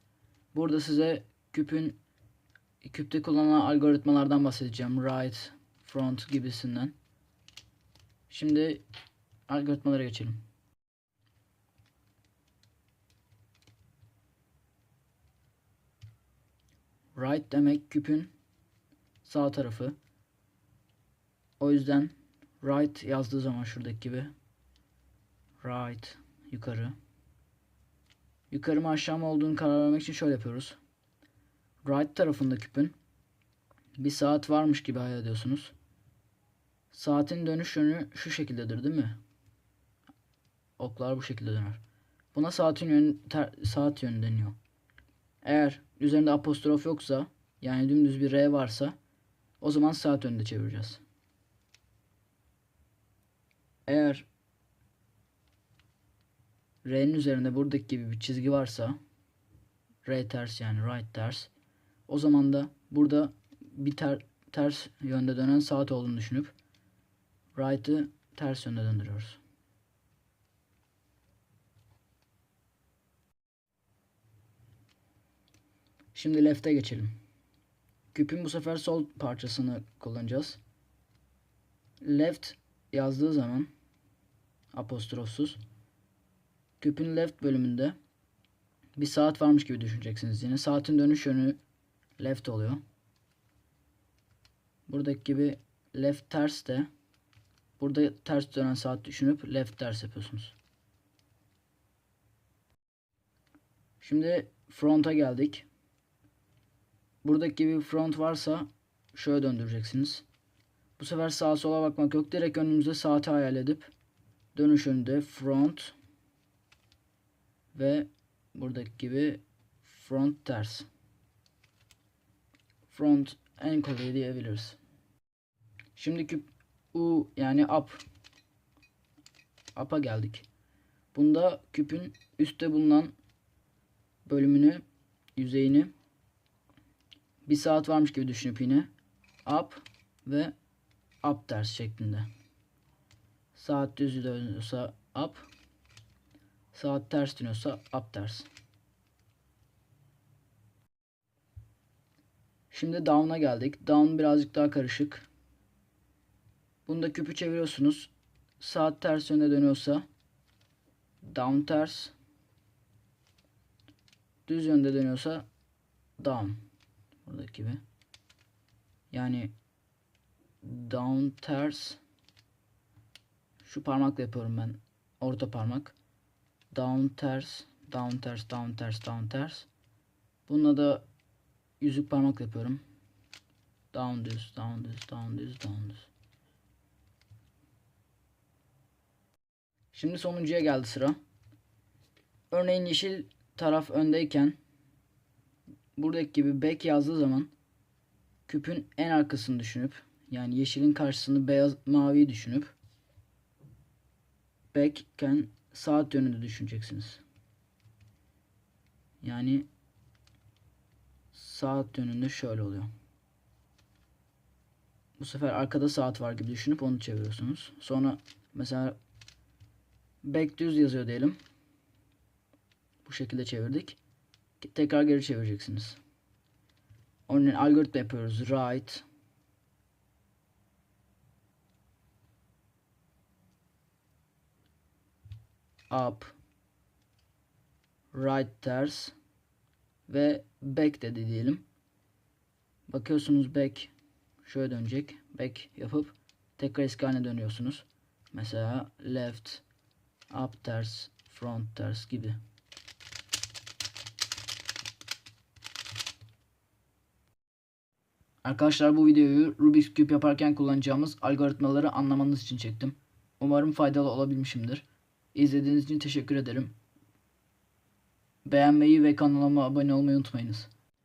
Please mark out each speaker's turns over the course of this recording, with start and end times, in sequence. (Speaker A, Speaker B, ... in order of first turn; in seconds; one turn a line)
Speaker A: 0.5-2.0
Speaker A: 2.8-7.0
Speaker A: 8.3-8.8
Speaker A: 9.5-10.4
Speaker A: 17.2-18.3
Speaker A: 19.2-19.9
Speaker A: 21.6-24.3
Speaker A: 25.6-26.9
Speaker A: 28.5-30.8
Speaker A: 31.8-33.0
Speaker A: 34.0-35.7
Speaker A: 36.9-39.2
Speaker A: 40.8-41.8
Speaker A: 42.3-44.6
Speaker A: 45.4-49.0
Speaker A: 49.6-51.0
Speaker A: 53.9-54.3
Speaker A: 56.8-59.0
Speaker A: 60.0-61.5
Speaker A: 62.1-66.5
Speaker A: 67.5-69.4
Speaker A: 76.1-77.1
Speaker A: 78.1-80.6
Speaker A: 82.0-83.7
Speaker A: 84.7-85.6
Speaker A: 86.8-88.0
Speaker A: 89.0-91.6
Speaker A: 92.2-92.8
Speaker A: 94.9-96.9
Speaker A: 97.8-100.5
Speaker A: 104.0-105.7
Speaker A: 107.2-110.2
Speaker A: 111.0-113.9
Speaker A: 114.5-116.0
Speaker A: 117.7-120.9
Speaker A: 122.9-124.8
Speaker A: 126.0-128.0
Speaker A: 129.8-130.4
Speaker A: 131.1-133.1
Speaker A: 134.2-134.8
Speaker A: 135.4-135.9
Speaker A: 137.4-138.9
Speaker A: 139.4-140.5
Speaker A: 141.2-142.3
Speaker A: 143.5-145.4
Speaker A: 146.7-148.5
Speaker A: 152.7-155.2
Speaker A: 156.8-160.0
Speaker A: 161.2-162.1
Speaker A: 164.5-165.4
Speaker A: 166.2-166.6
Speaker A: 167.2-167.8
Speaker A: 169.1-169.5
Speaker A: 170.6-172.0
Speaker A: 173.6-175.9
Speaker A: 176.7-179.7
Speaker A: 180.5-181.0
Speaker A: 181.8-182.8
Speaker A: 183.9-186.1
Speaker A: 189.9-191.2
Speaker A: 192.5-194.6
Speaker A: 196.0-197.5
Speaker A: 198.5-202.7
Speaker A: 204.7-207.2
Speaker A: 209.2-209.7
Speaker A: 211.3-212.9
Speaker A: 215.2-218.9
Speaker A: 220.2-221.4
Speaker A: 223.0-224.0
Speaker A: 224.6-226.0
Speaker A: 227.3-229.0
Speaker A: 235.9-236.3
Speaker A: 238.1-239.2
Speaker A: 240.1-241.6
Speaker A: 242.9-243.9
Speaker A: 244.4-249.6
Speaker A: 250.3-252.4
Speaker A: 258.4-266.7
Speaker A: 268.5-270.7